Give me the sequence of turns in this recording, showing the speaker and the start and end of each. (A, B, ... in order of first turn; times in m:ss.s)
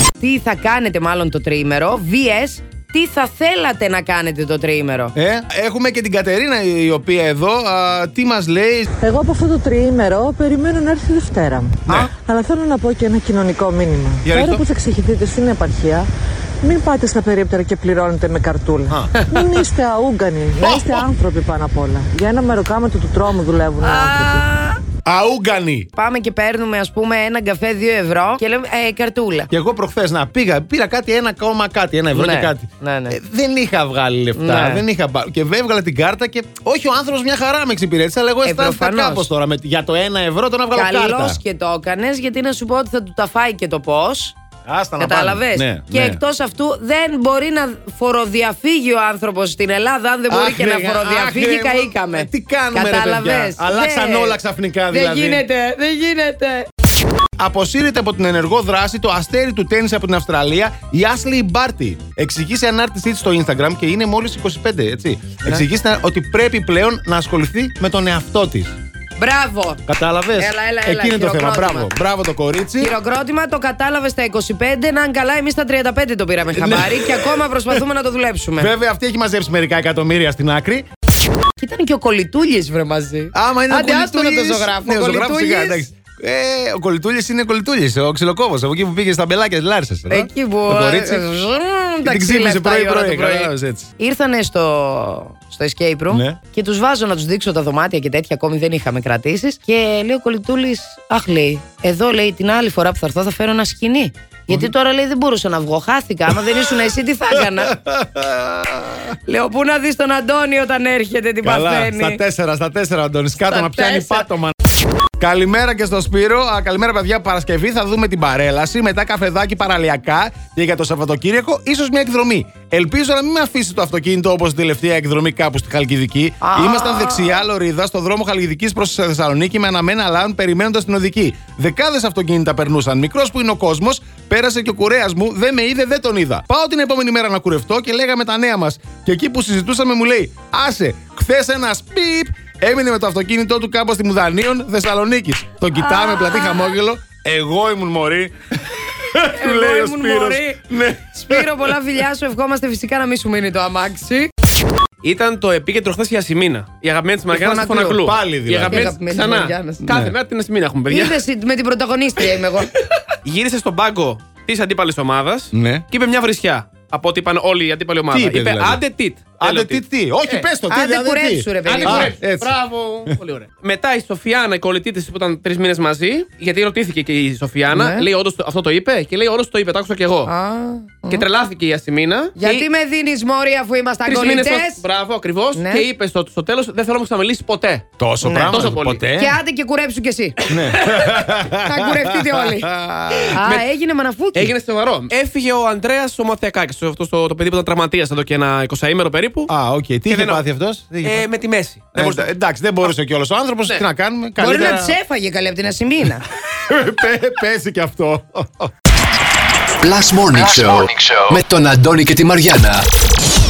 0:00.2-0:05.1 A
0:05.1-0:08.9 B
0:09.0-0:16.0 C
0:09.2-0:11.5 D
0:14.2-0:14.6 B
0:14.3-0:15.9 D
0:16.6-0:24.3 C
0:17.0-0:17.4 D
0:18.9-0:19.5 B
0:20.6-0:21.0 B
0:22.9-0:23.6 D
0:23.8-0:24.8 A
0:25.0-0:25.9 B
0:26.0-0:29.5 A
0:29.5-0:41.4 B
0:32.1-0:33.2 A
0:34.4-0:34.8 A
0:38.4-0:39.3 A
0:40.7-0:44.4 A
0:44.7-0:46.2 B
0:45.0-0:56.7 A
0:50.3-0:55.4 B
0:57.4-1:08.7 B
1:09.2-1:09.8 A
1:09.9-1:12.9 B
1:10.3-1:11.9 A
1:12.8-1:18.7 A
1:16.5-1:17.7 B
1:18.6-1:20.8 B
1:21.6-1:25.9 A
1:23.3-1:31.3 B
1:30.1-1:47.8 A
1:32.0-1:33.9 B
1:36.1-1:36.4 B
1:47.4-1:49.1 B
1:49.2-1:52.2 A
1:51.4-1:54.6 B
1:53.4-1:54.3 A
1:55.2-2:31.7 B
2:06.4-2:07.4 A
2:25.7-2:26.8 A
2:29.3-2:30.6 A
2:31.1-2:34.3 A
2:35.0-2:41.2 E
2:37.3-2:38.0 A
2:37.9-2:38.9 B
2:38.6-2:39.9 A
2:39.9-2:40.1 B
2:40.9-2:42.7 A
2:43.2-2:50.5 E
2:45.5-2:45.8 B
2:48.1-2:48.8 B
2:49.4-2:52.5 B
2:50.7-2:52.1 A
2:51.6-3:00.3 E
2:57.7-2:58.1 A
3:00.2-3:01.2 A
3:01.1-3:02.6 E
3:02.4-3:04.8 A
3:04.0-3:07.8 E
3:05.5-3:05.9 A
3:08.0-3:09.4 B
3:08.2-3:10.5 A
3:08.5-3:09.0 E
3:10.5-3:13.6 B
3:10.7-3:11.1 E
3:11.4-3:12.7 A
3:13.3-3:14.5 A
3:14.3-3:19.5 E
3:19.5-3:21.3 B
3:20.1-3:20.4 E
3:21.0-3:22.3 E
3:21.9-3:25.0 B
3:24.4-3:26.2 A
3:26.7-3:28.7 B
3:29.8-3:32.9 D